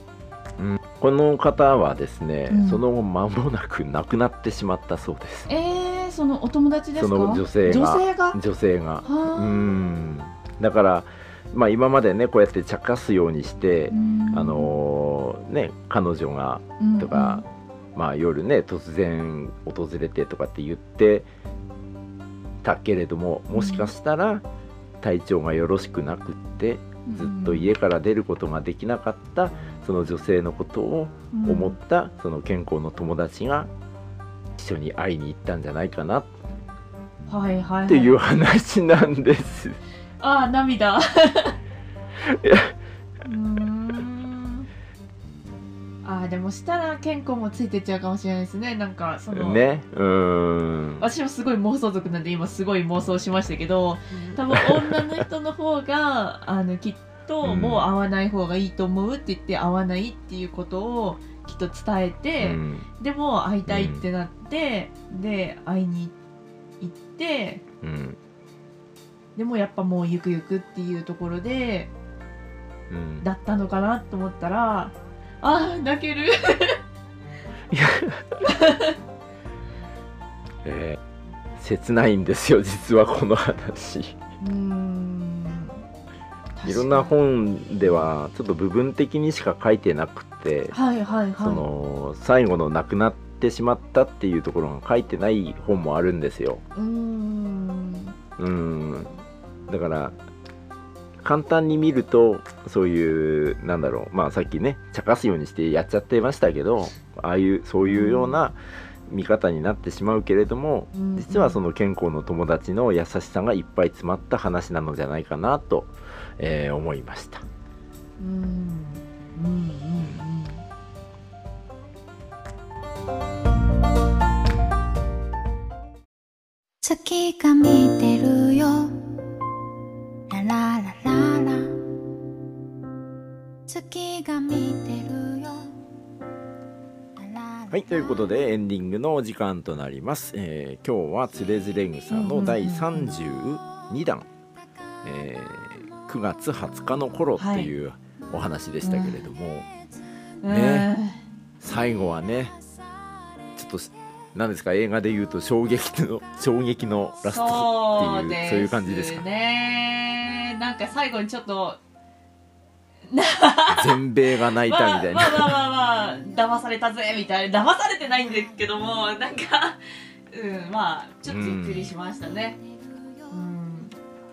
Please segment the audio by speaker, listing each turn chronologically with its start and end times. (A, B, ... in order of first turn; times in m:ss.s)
0:00.6-0:05.5 A
0:02.5-0:02.8 B
0:05.5-0:08.4 B
0:06.9-0:21.3 A
0:09.0-0:09.6 B
0:13.9-0:14.7 B
0:16.8-0:17.4 B
0:22.6-0:24.4 A
0:23.5-0:23.9 B
0:25.0-0:33.7 A
0:27.0-0:27.7 B
0:31.3-0:31.7 B
0:34.6-0:36.3 A
0:37.3-0:38.2 B
0:37.9-0:39.8 A
0:40.2-0:41.6 B
0:42.2-0:42.7 A
0:43.2-0:44.7 B
0:46.0-0:49.6 B
0:49.3-0:51.0 A
0:51.0-1:06.1 B
0:54.5-0:55.2 A
0:57.4-0:57.9 A
1:02.4-1:02.9 A
1:03.6-1:04.0 A
1:06.8-1:07.6 B
1:07.8-1:08.2 A
1:09.3-1:11.9 B
1:12.9-1:13.3 A
1:13.2-1:16.8 B
1:17.7-1:18.4 A
1:18.4-1:19.0 B
1:20.6-1:21.0 A
1:21.6-1:24.2 A
1:24.4-1:25.8 B
1:26.6-1:27.2 B
1:26.6-1:30.8 A
1:27.8-1:28.1 B
1:30.7-1:31.6 B
1:31.4-1:36.6 A
1:36.7-1:38.1 B
1:38.4-1:39.1 A
1:39.7-1:40.1 A
1:41.2-1:48.6 A
1:47.8-1:48.4 B
1:49.1-1:57.4 A
1:50.9-1:51.6 B
1:58.2-2:00.6 B
2:00.0-2:00.2 A
2:06.8-2:09.1 C
2:10.3-2:11.8 C
2:13.7-2:15.7 C
2:17.2-2:18.3 C
2:17.7-2:24.3 A
2:22.1-2:23.2 B
2:25.0-2:29.7 A
2:27.4-2:27.7 B
2:28.8-2:29.2 B
2:30.4-2:31.2 B
2:30.5-2:30.9 A
2:31.6-2:32.5 A
2:33.6-2:39.2 A
2:37.2-2:41.8 B
2:43.1-2:49.8 B
2:43.7-2:45.6 A
2:46.1-2:46.4 C
2:48.3-2:48.9 C
2:50.3-2:52.6 B
2:51.2-2:51.9 A
2:52.2-2:53.5 C
2:53.3-2:53.9 B